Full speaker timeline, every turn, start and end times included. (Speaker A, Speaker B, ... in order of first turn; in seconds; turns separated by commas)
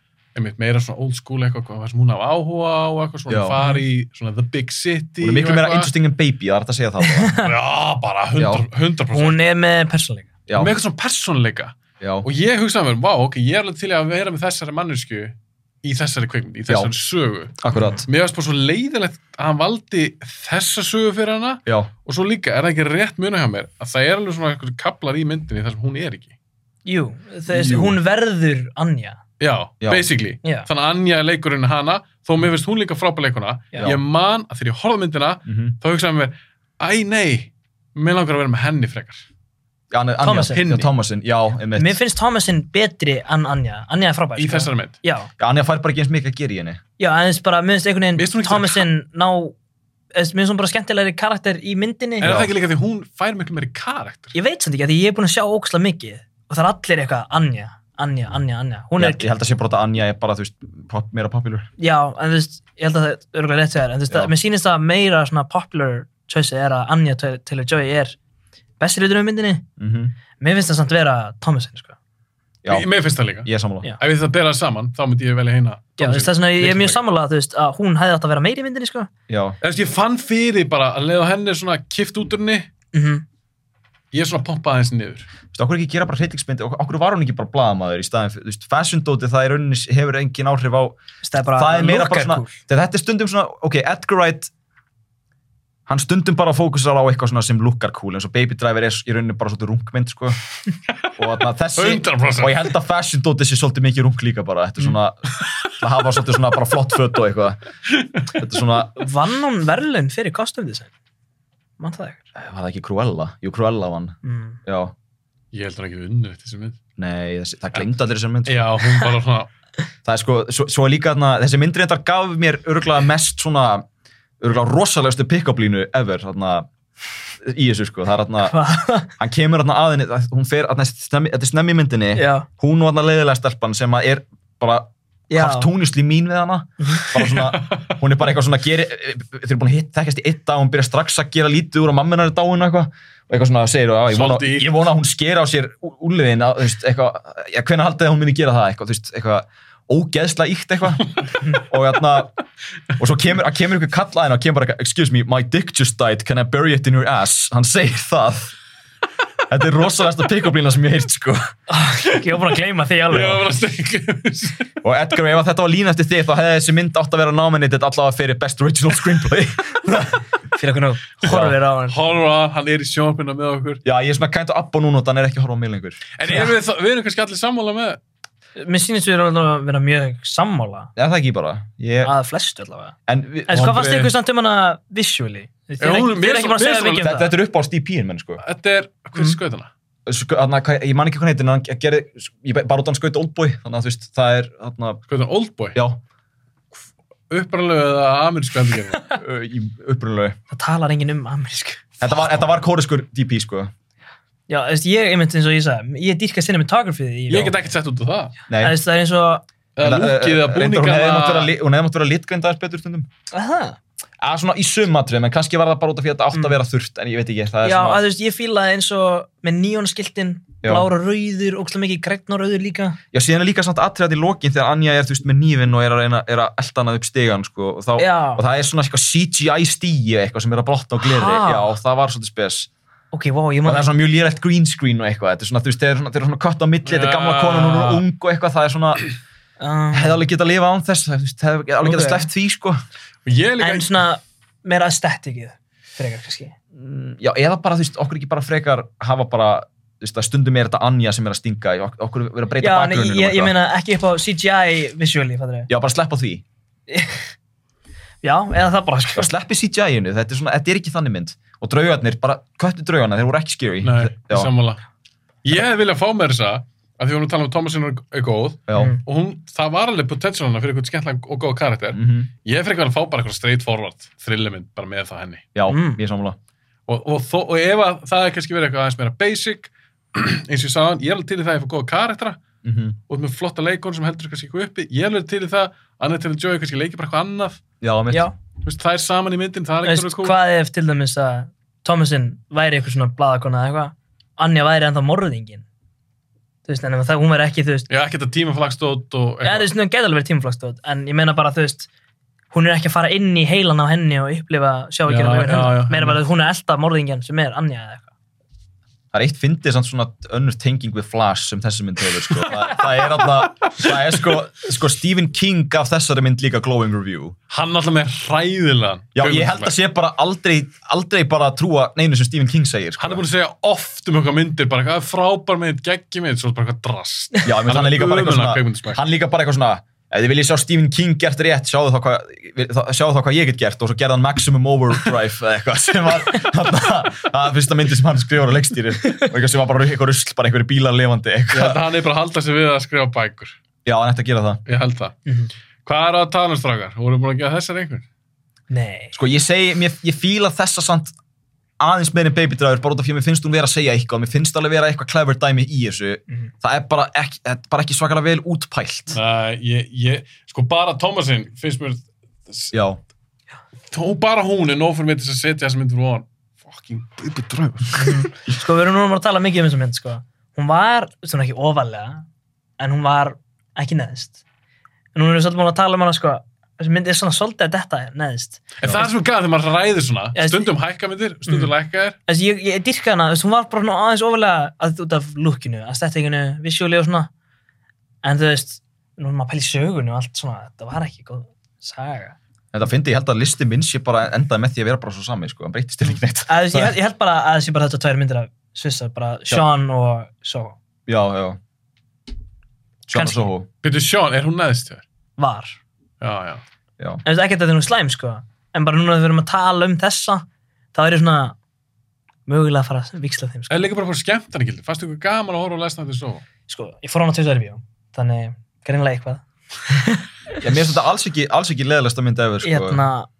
Speaker A: 0.3-5.9, Speaker B: 3.3-3.6, Speaker C: 3.6-3.8, Speaker B: 5.2-7.4, Speaker C: 7.0-7.5, Speaker A: 7.4-9.4, Speaker B: 8.4-8.6, Speaker C: 9.1-10.3, Speaker B: 10.5-10.7, Speaker A: 10.6-26.3, Speaker B: 12.0-12.3, Speaker B: 17.6-18.1, Speaker B: 21.7-21.9, Speaker C: 26.9-29.2, Speaker B: 27.5-28.0, Speaker A: 29.4-39.3, Speaker B: 29.8-30.1, Speaker B: 35.5-35.8, Speaker B: 39.9-42.0, Speaker C: 40.2-40.6, Speaker A: 40.5-40.9, Speaker C: 41.8-45.3, Speaker A: 44.4-45.0, Speaker B: 45.4-46.8, Speaker C: 47.0-49.5, Speaker A: 48.2-48.9, Speaker C: 50.1-52.3, Speaker A: 52.2-54.4, Speaker B: 52.2-52.5, Speaker C: 54.3-59.3, Speaker B: 59.0-61.7, Speaker C: 61.8-68.2, Speaker C: 68.8-69.6, Speaker B: 69.8-70.2, Speaker C: 70.4-72.0, Speaker A: 72.7-77.0, Speaker B: 73.4-73.9, Speaker C: 76.0-79.1, Speaker B: 79.3-79.6, Speaker A: 79.6-82.7, Speaker C: 82.9-83.2, Speaker A: 84.1-85.3, Speaker B: 85.5-94.5, Speaker C: 91.2-92.6, Speaker B: 95.9-100.4, Speaker B: 101.2-107.6, Speaker A: 101.8-102.6, Speaker B: 108.3-109.0, Speaker C: 109.0-110.9, Speaker C: 111.8-112.2, Speaker B: 112.3-114.9, Speaker C: 114.2-114.6, Speaker A: 115.5-116.8, Speaker B: 117.0-118.7, Speaker A: 118.5-119.5, Speaker B: 120.0-123.9, Speaker B: 124.4-126.7, Speaker B: 127.4-128.6, Speaker C: 128.4-129.1, Speaker B: 129.2-152.3, Speaker C: 132.2-132.5, Speaker C: 135.3-135.7, Speaker A: 137.2-137.7, Speaker A: 144.1-144.8, Speaker B: 153.0-158.6, Speaker B: 159.5-161.5, Speaker C: 161.7-163.4, Speaker A: 163.1-164.7, Speaker B: 164.8-170.2, Speaker C: 170.5-172.0, Speaker B: 171.2-171.5, Speaker A: 171.9-173.8, Speaker B: 173.8-176.1, Speaker A: 176.2-178.0, Speaker C: 178.6-180.9, Speaker B: 181.0-182.1, Speaker C: 182.0-182.9, Speaker B: 183.1-183.9, Speaker C: 183.5-187.3, Speaker A: 183.6-184.1, Speaker A: 185.8-187.1, Speaker B: 187.0-188.4, Speaker A: 188.4-189.7, Speaker B: 190.1-195.0, Speaker A: 195.1-195.8, Speaker B: 195.7-196.0, Speaker A: 197.3-199.1, Speaker B: 199.2-200.4, Speaker C: 200.5-201.9, Speaker B: 202.0-203.7, Speaker C: 204.5-207.6, Speaker A: 207.3-208.3, Speaker B: 208.5-208.8, Speaker C: 208.6-209.4, Speaker A: 209.8-211.5, Speaker B: 209.8-213.1, Speaker C: 213.3-213.8, Speaker B: 214.2-218.0, Speaker C: 217.6-223.0, Speaker B: 223.1-232.7, Speaker C: 228.0-228.4, Speaker C: 231.0-231.7, Speaker C: 233.1-233.9, Speaker B: 233.7-239.1, Speaker A: 236.8-238.0, Speaker C: 239.6-240.2, Speaker B: 239.9-242.8, Speaker C: 241.8-242.3, Speaker A: 243.3-243.9, Speaker C: 243.6-246.6, Speaker B: 246.7-253.5, Speaker C: 252.6-255.7, Speaker B: 255.7-256.4, Speaker C: 256.9-257.3, Speaker C: 258.2-259.3, Speaker B: 259.1-264.5, Speaker A: 263.8-264.8, Speaker A: 265.4-275.4, Speaker B: 268.7-268.9, Speaker C: 268.8-269.0, Speaker B: 271.9-272.3, Speaker B: 275.6-276.4, Speaker C: 275.7-276.0, Speaker A: 276.9-282.4, Speaker B: 282.6-283.0, Speaker A: 283.1-287.6, Speaker B: 287.8-288.3, Speaker A: 288.6-290.4, Speaker C: 289.8-295.6, Speaker C: 296.7-297.9, Speaker A: 297.9-299.7, Speaker C: 299.4-301.9, Speaker C: 302.5-308.1, Speaker A: 305.1-306.2, Speaker B: 309.1-317.4, Speaker A: 317.5-319.7, Speaker B: 319.1-323.2, Speaker A: 323.0-329.0, Speaker B: 327.4-341.8, Speaker A: 341.5-343.6, Speaker B: 343.9-344.6, Speaker A: 344.7-345.2, Speaker A: 345.9-348.1, Speaker C: 348.7-349.1, Speaker B: 349.1-351.1, Speaker B: 351.8-359.2, Speaker A: 359.1-362.7, Speaker B: 362.7-363.0, Speaker A: 363.9-368.3, Speaker C: 368.0-372.2, Speaker C: 372.8-374.4, Speaker C: 375.1-378.8, Speaker A: 378.8-382.2, Speaker C: 380.4-380.7, Speaker C: 381.5-381.7, Speaker C: 382.3-387.3, Speaker C: 388.2-392.4, Speaker B: 392.7-396.9, Speaker C: 396.5-400.8, Speaker B: 401.1-401.6, Speaker B: 403.1-403.7, Speaker C: 403.1-403.5, Speaker A: 403.8-405.0, Speaker C: 405.4-405.8, Speaker A: 406.2-406.6, Speaker C: 407.2-411.6, Speaker C: 412.5-413.9, Speaker A: 413.7-416.4, Speaker C: 416.7-420.2, Speaker B: 420.6-423.0, Speaker C: 422.6-423.3